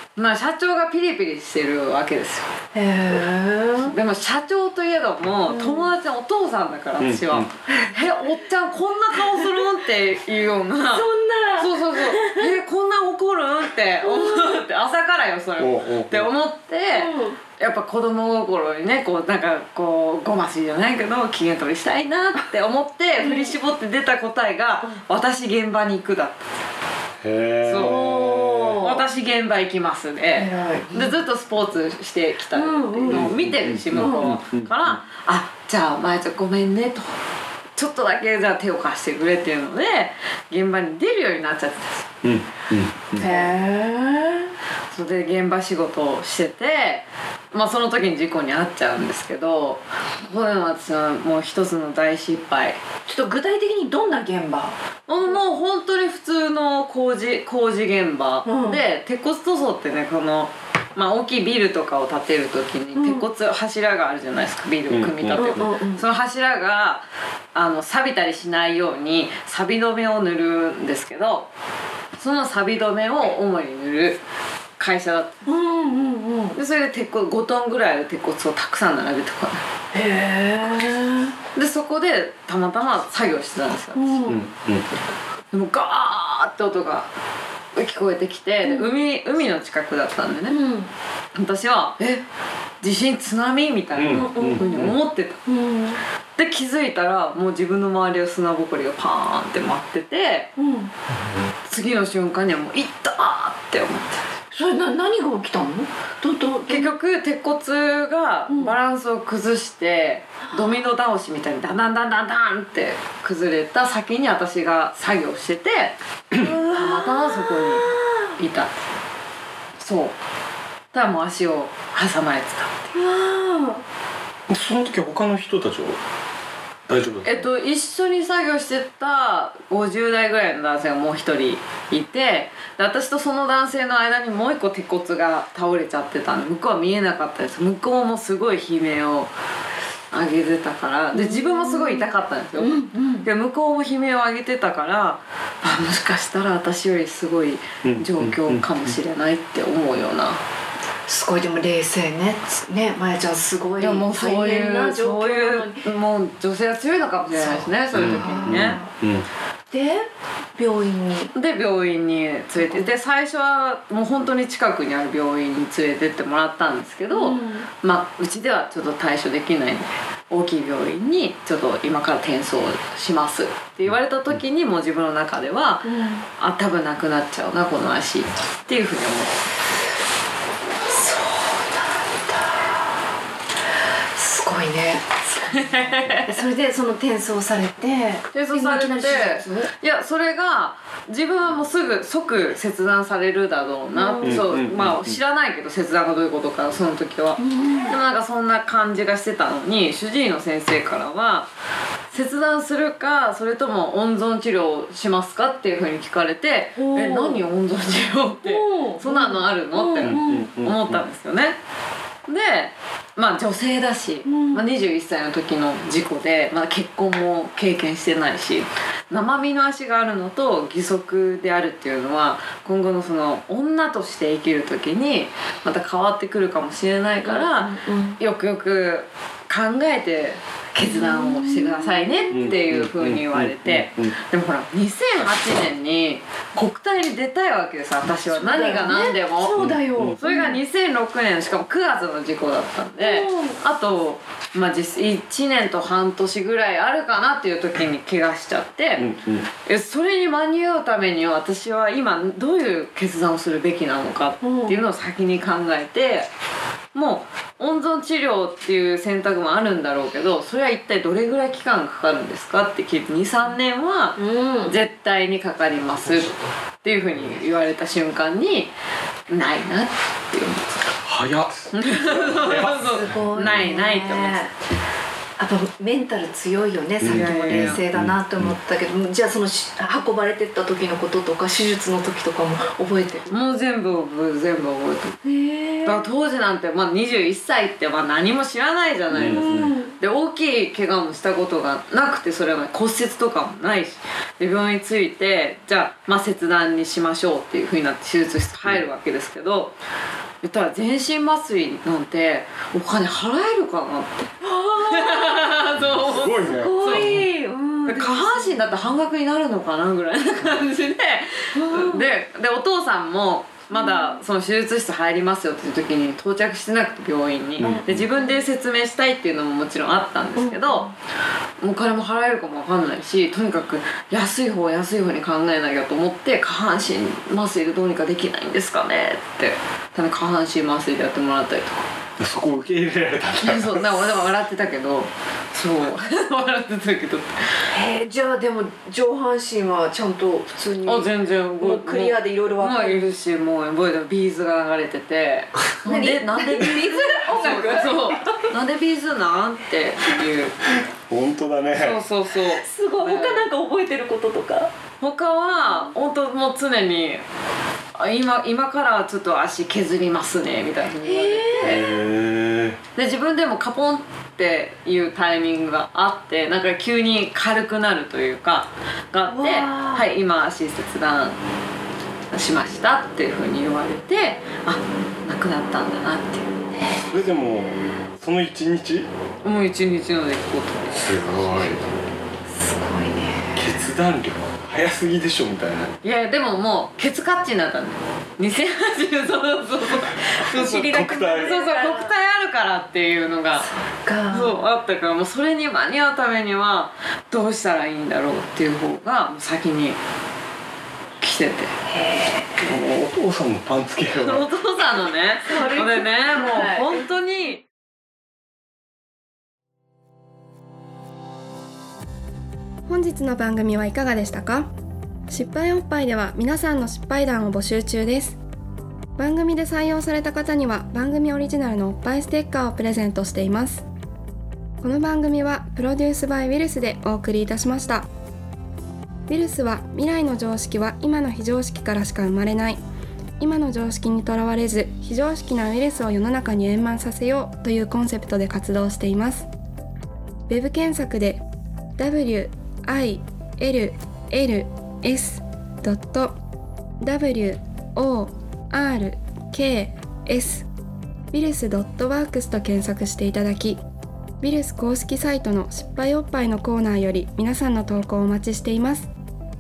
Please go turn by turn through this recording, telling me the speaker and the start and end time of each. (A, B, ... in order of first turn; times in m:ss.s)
0:00.2-0:02.5 A
0:02.8-0:04.0 B
0:03.8-0:26.5 A
0:05.5-0:05.9 B
0:07.0-0:07.5 C
0:10.9-0:12.5 B
0:14.0-0:14.6 B
0:15.6-0:16.3 C
0:16.9-0:17.4 B
0:23.2-0:23.5 B
0:27.2-0:28.8 C
0:27.6-0:28.0 A
0:27.8-0:29.1 B
0:28.8-0:37.1 A
0:30.4-0:31.2 B
0:32.5-0:33.4 B
0:33.1-0:35.0 C
0:33.9-0:34.3 B
0:37.8-0:42.1 A
0:42.2-0:43.3 C
0:43.2-0:44.5 B
0:43.2-0:43.5 A
0:44.9-0:52.8 A
0:53.1-0:54.8 B
0:55.1-1:11.5 A
0:58.5-0:58.8 B
1:03.0-1:03.3 B
1:04.9-1:05.7 C
1:05.4-1:06.0 B
1:12.2-1:14.2 A
1:14.8-1:15.4 A
1:15.5-1:16.6 B
1:16.6-1:19.6 A
1:19.9-1:21.4 B
1:21.6-1:24.3 A
1:24.0-1:24.4 B
1:24.3-1:24.8 C
1:25.5-1:27.1 A
1:27.8-1:30.6 A
1:28.6-1:28.9 B
1:30.5-1:30.9 B
1:31.4-1:32.2 A
1:32.8-1:35.4 A
1:34.0-1:35.0 C
1:34.1-1:34.9 B
1:35.5-1:36.0 B
1:36.4-1:40.5 A
1:40.6-1:40.9 B
1:41.7-1:44.2 A
1:44.5-1:46.9 B
1:46.7-1:56.0 A
1:56.4-1:58.0 B
1:56.6-1:58.8 A
1:59.8-2:00.2 A
2:00.9-2:02.8 A
2:02.9-2:03.8 B
2:04.5-2:06.0 C
2:06.9-2:07.4 C
2:07.2-2:19.3 A
2:20.1-2:30.4 A
2:21.1-2:23.3 B
2:27.8-2:28.9 C
2:31.1-2:35.8 B
2:33.8-2:38.8 A
2:37.3-2:38.9 B
2:37.9-2:39.3 C
2:39.7-2:40.0 B
2:40.6-2:41.3 B
2:41.3-2:59.4 A
2:42.6-2:42.9 B
2:47.1-2:47.7 B
2:55.8-2:56.2 B
3:00.9-3:02.8 B
3:04.2-3:05.6 B
3:05.4-3:06.4 A
3:06.2-3:09.7 B
3:08.3-3:21.5 A
3:13.9-3:14.5 B
3:14.2-3:15.2 C
3:17.4-3:17.9 B
3:22.1-3:31.6 A
3:26.8-3:27.4 B
3:28.4-3:30.5 B
3:30.0-3:31.0 C
3:32.3-3:59.6 A
3:34.3-3:34.6 B
3:47.2-3:48.2 B
3:50.8-3:52.5 B
3:52.3-3:54.1 C
3:58.3-4:00.6 B
3:59.6-4:00.2 C
4:00.2-4:09.1 A
4:03.0-4:03.6 B
4:09.0-4:09.5 C
4:09.6-4:16.3 A
4:14.4-4:14.8 B
4:16.9-4:28.7 A
4:24.2-4:24.8 B
4:29.3-4:31.0 A
4:31.0-4:33.5 C
4:31.7-4:34.5 A
4:32.4-4:34.5 B
4:35.4-4:43.3 B
4:37.0-4:38.5 C
4:37.1-4:37.8 A
4:43.3-4:45.2 A
4:45.2-4:46.1 B
4:45.8-4:59.7 A
4:49.1-4:49.7 C
4:49.1-4:49.9 B
5:00.4-5:07.2 A
5:04.6-5:05.5 B
5:05.8-5:07.2 C
5:06.4-5:08.8 B
5:07.9-5:20.9 A
5:11.5-5:12.1 B
5:13.7-5:14.2 B
5:17.6-5:18.1 C
5:17.6-5:18.3 B
5:20.4-5:20.9 B
5:21.6-5:31.8 A
5:32.2-5:34.0 C
5:33.4-5:37.4 A
5:37.7-5:43.1 B
5:40.8-5:50.6 A
5:45.8-5:48.4 B
5:51.1-5:52.0 C
5:51.7-5:53.5 A
5:52.5-5:54.7 B
5:55.0-5:57.2 A
5:58.0-6:01.8 A
6:01.0-6:01.9 B
6:01.6-6:02.8 C
6:03.0-6:11.4 A
6:09.3-6:10.0 B
6:12.3-6:16.5 A
6:17.1-6:19.1 C
6:19.4-6:21.8 A
6:20.9-6:21.8 C
6:22.5-6:23.7 B
6:23.6-6:25.9 C
6:26.0-6:33.7 A
6:30.5-6:32.1 B
6:30.6-6:31.6 C
6:33.6-6:34.6 B
6:34.3-6:40.0 A
6:41.2-6:41.7 A
6:41.9-6:42.6 B
6:42.6-6:44.5 C
6:44.2-6:47.6 A
6:45.5-6:47.0 B
6:52.9-6:54.7 D
6:55.3-6:58.4 D
6:59.2-7:03.9 D
7:04.8-7:08.1 D
7:09.3-7:12.8 D
7:13.4-7:19.5 D
7:20.5-7:21.4 D
7:22.0-7:26.4 D
7:27.0-7:30.7 D
7:31.3-7:33.8 D
7:34.4-7:39.1 D